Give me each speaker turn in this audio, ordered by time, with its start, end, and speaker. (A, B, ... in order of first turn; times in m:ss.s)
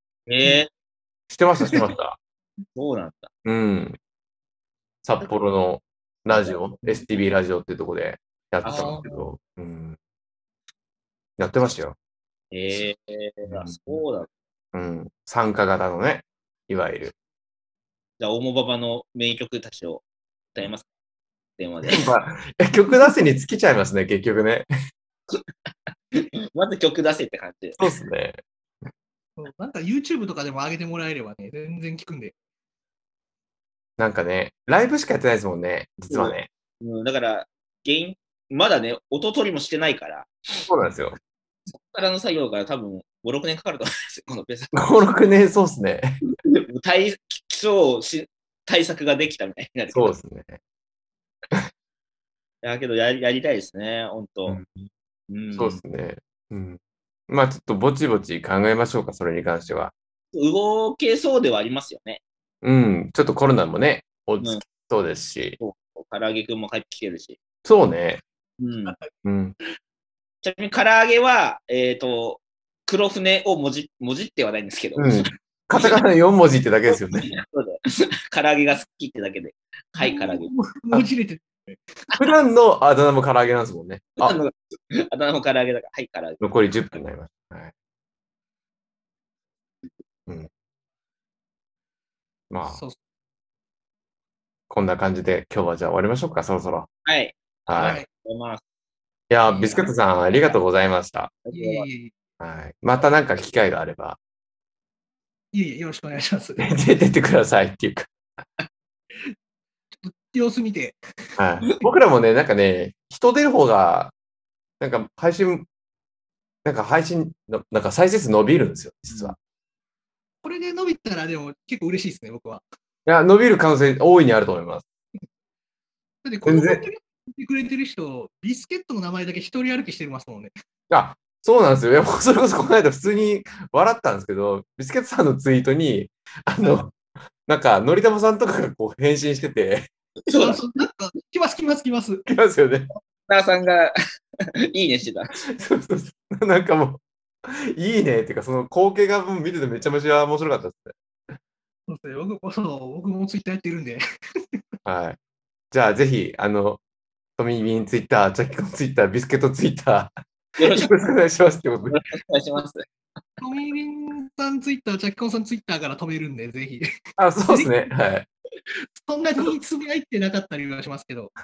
0:00.3-0:00.7 A
0:01.3-0:02.2 B
0:02.7-0:03.3 A
0:03.4-0:04.0 B
0:05.0-0:10.0 B
0:08.6-0:09.0 A
0:08.6-0:09.1 C
0:11.4-0:12.0 B
0:12.5-0:14.3 A
0:13.5-0:14.0 B
0:14.7-0:17.1 B
0:18.2-0:20.0 A
0:20.5-0:20.8 A
0:21.6-0:22.1 A
0:21.9-0:24.7 B
0:26.1-0:27.8 A
0:27.8-0:28.4 B
0:29.4-0:32.3 C
0:34.0-0:36.5 B
0:36.1-0:40.6 A
0:40.7-0:41.2 B
0:41.7-0:45.1 A
0:44.7-0:46.2 B
0:46.4-0:50.1 A
0:49.9-0:50.6 B
0:52.6-0:54.6 A
0:54.5-0:54.9 B
0:55.3-0:55.8 A
0:55.5-0:59.9 B
1:00.3-1:02.2 A
1:02.6-1:05.6 B
1:05.6-1:07.4 A
1:07.6-1:08.2 B
1:08.6-1:09.0 A
1:08.8-1:09.1 C
1:09.2-1:09.5 B
1:10.4-1:15.3 A
1:15.0-1:17.3 B
1:17.1-1:20.5 A
1:20.0-1:21.8 C
1:22.2-1:24.4 B
1:24.2-1:26.5 A
1:26.4-1:27.7 B
1:32.5-1:32.8 B
1:32.7-1:33.0 C
1:34.7-1:36.9 B
1:37.0-1:38.6 A
1:37.7-1:38.0 B
1:37.8-1:38.1 C
1:39.3-1:41.3 B
1:39.5-1:39.8 C
1:41.4-1:41.8 A
1:41.5-1:42.1 C
1:42.4-1:44.2 B
1:45.5-1:46.7 C
1:46.6-1:48.1 B
1:50.0-1:51.0 C
1:51.4-1:54.1 B
1:54.8-1:55.7 B
1:56.6-1:59.4 B
2:00.4-2:02.6 C
2:03.0-2:04.8 B
2:06.2-2:10.5 C
2:06.4-2:06.8 B
2:10.9-2:19.9 B
2:20.2-2:20.6 A
2:20.3-2:22.3 C
2:22.3-2:22.9 B
2:23.3-2:23.9 A
2:24.7-2:25.4 A
2:25.5-2:31.0 B
2:31.9-2:34.0 C
2:34.8-2:35.2 B
2:35.7-2:36.8 B
2:37.4-2:40.1 B
2:40.6-2:41.0 A
2:40.6-2:42.0 B
2:41.9-2:42.8 A
2:43.4-2:46.8 C
2:47.2-2:48.2 B
2:47.5-2:47.9 C
2:49.0-2:51.3 C